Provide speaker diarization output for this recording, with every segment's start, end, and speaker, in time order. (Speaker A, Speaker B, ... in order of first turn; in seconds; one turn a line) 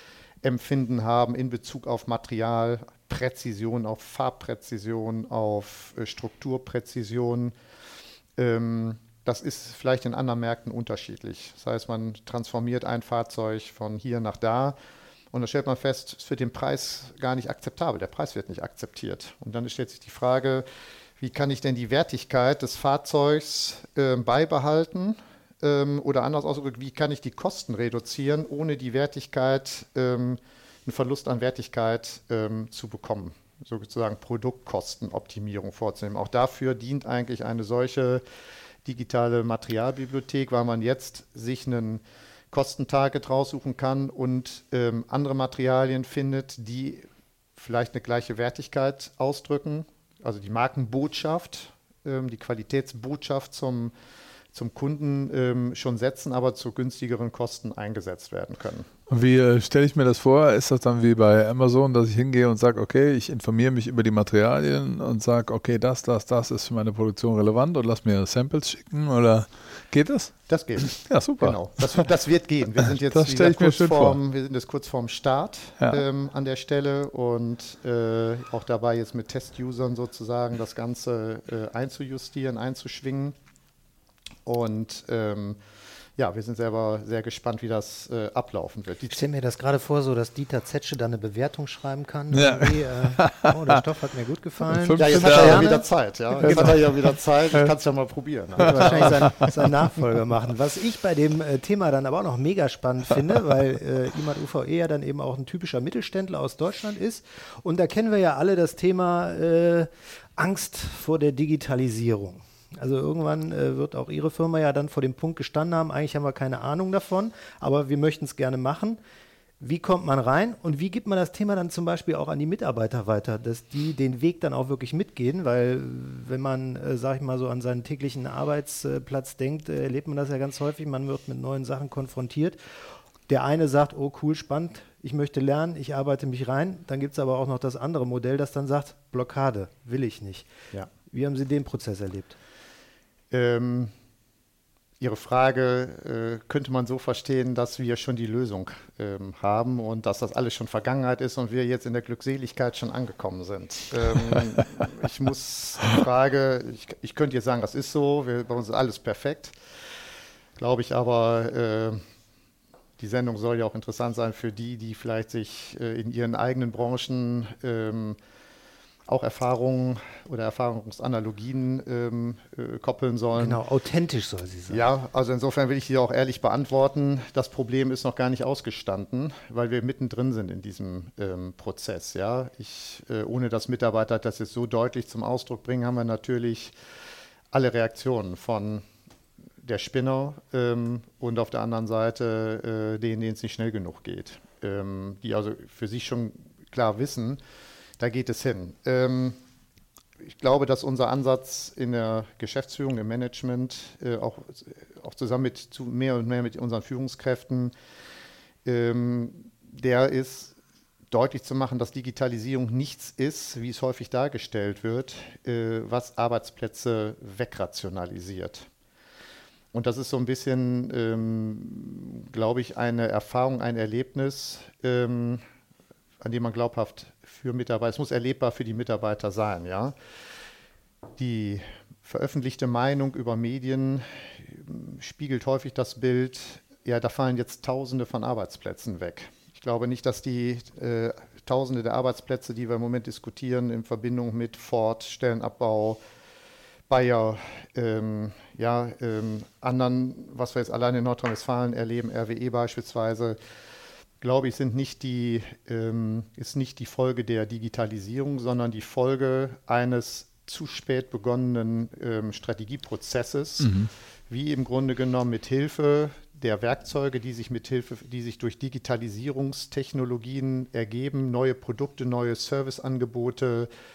Speaker A: 0.4-7.5
Speaker A: 8.4-14.8
Speaker A: 15.3-20.6
Speaker A: 21.2-38.2
Speaker A: 38.8-53.9
Speaker A: 54.5-58.9
Speaker B: 59.1-72.0
Speaker A: 70.5-83.3
Speaker B: 73.1-74.2
Speaker A: 84.5-85.6
Speaker A: 86.2-89.2
Speaker C: 89.1-95.8
Speaker B: 92.3-93.8
Speaker B: 94.7-95.7
Speaker A: 95.0-99.4
Speaker C: 96.4-96.7
Speaker B: 96.4-97.7
Speaker C: 98.6-119.0
Speaker B: 98.6-99.5
Speaker C: 119.6-132.6
Speaker C: 133.3-140.5
Speaker C: 141.1-142.4
Speaker A: 143.3-143.9
Speaker A: 145.0-159.5
Speaker A: 160.6-162.0
Speaker A: 163.0-168.2
Speaker A: 169.1-173.6
Speaker C: 173.3-174.8
Speaker A: 174.7-186.7
Speaker A: 187.5-188.8
Speaker A: 189.6-197.4
Speaker A: 198.0-199.4
Speaker A: 200.2-207.7
Speaker A: 208.6-210.6
Speaker A: 211.1-218.7
Speaker A: 219.7-225.4
Speaker A: 226.2-229.9
Speaker A: 231.2-246.0
Speaker A: 246.9-253.4
Speaker A: 254.2-263.8
Speaker B: 263.6-263.9
Speaker A: 264.3-273.7